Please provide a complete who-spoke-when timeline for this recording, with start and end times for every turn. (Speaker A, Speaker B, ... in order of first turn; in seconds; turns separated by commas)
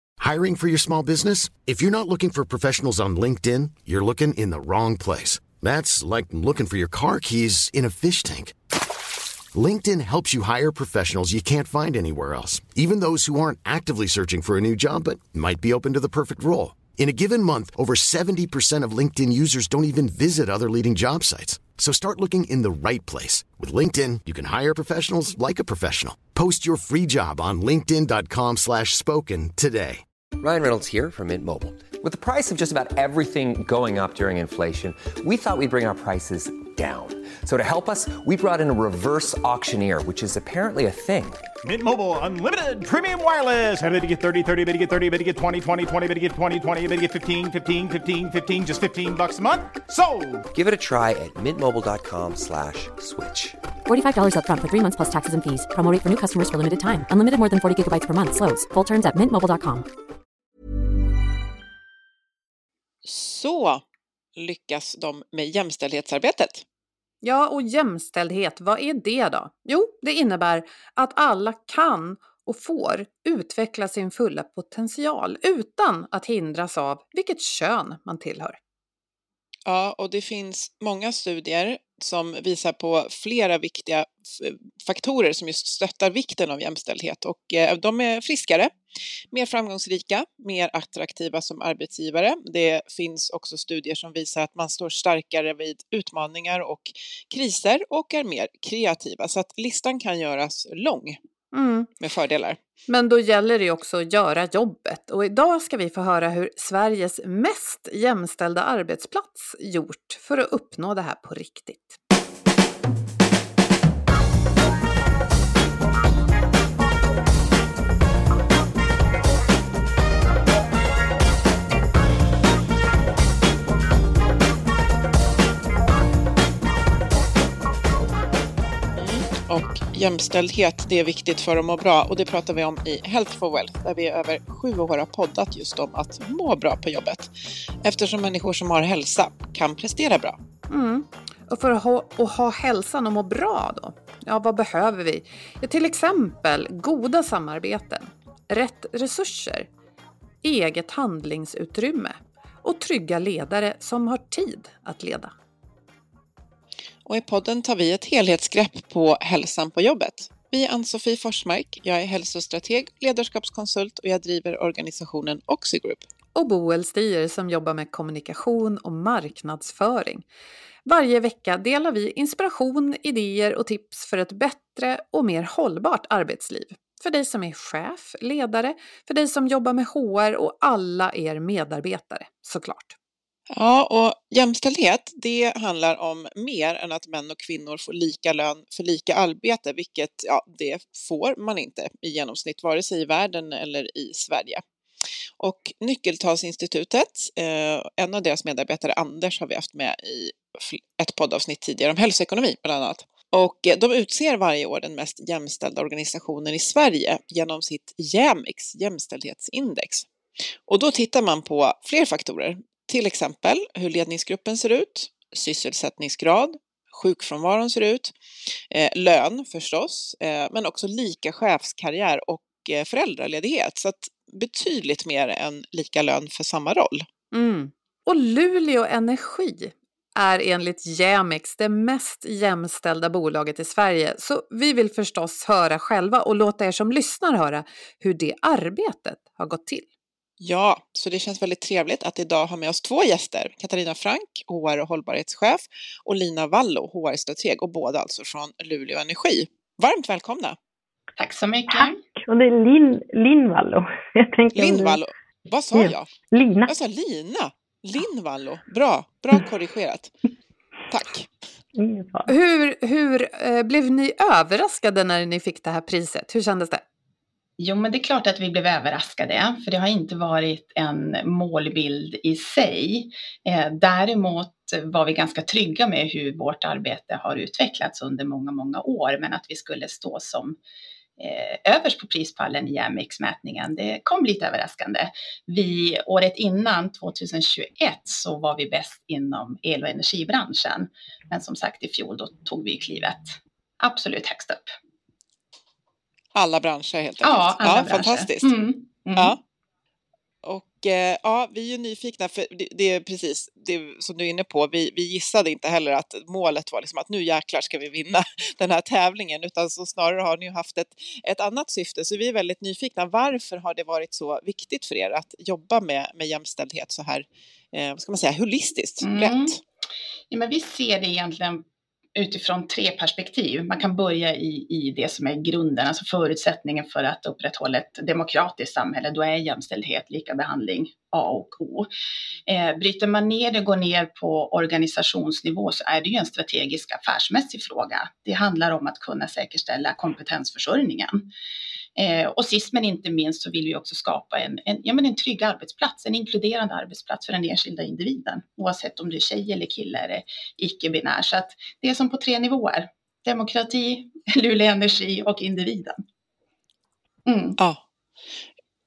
Speaker A: 0.2-8.5, Speaker A: 9.5-30.0, Speaker B: 30.4-41.4, Speaker C: 41.6-50.5, Speaker B: 50.5-53.6, Speaker D: 53.9-59.9, Speaker E: 63.0-63.8, Speaker E: 64.3-66.6, Speaker F: 67.2-78.6, Speaker E: 79.7-88.7, Speaker E: 89.3-101.2, Speaker F: 101.5-101.9, Speaker E: 102.0-102.6, Speaker F: 102.9-112.0, Speaker E: 128.9-137.3, Speaker E: 137.8-140.4, Speaker F: 140.7-149.7, Speaker F: 150.4-155.3, Speaker E: 157.1-166.1, Speaker F: 166.3-170.2, Speaker F: 170.8-182.9, Speaker E: 183.5-194.6, Speaker E: 195.4-210.1, Speaker E: 210.7-218.1, Speaker E: 218.7-227.1, Speaker F: 227.3-239.8, Speaker E: 240.4-250.6, Speaker G: 251.2-252.0, Speaker H: 251.7-255.0, Speaker E: 254.5-256.1, Speaker H: 255.7-256.7, Speaker E: 256.6-260.1, Speaker E: 260.9-261.3, Speaker H: 261.7-262.3, Speaker F: 262.3-266.8, Speaker G: 267.6-280.6, Speaker G: 281.2-294.7, Speaker E: 296.3-298.5, Speaker G: 297.2-299.4, Speaker E: 300.4-319.5, Speaker G: 319.0-319.6, Speaker G: 320.3-321.6, Speaker G: 322.1-331.9, Speaker G: 332.4-341.3, Speaker G: 341.9-356.0, Speaker G: 357.2-357.6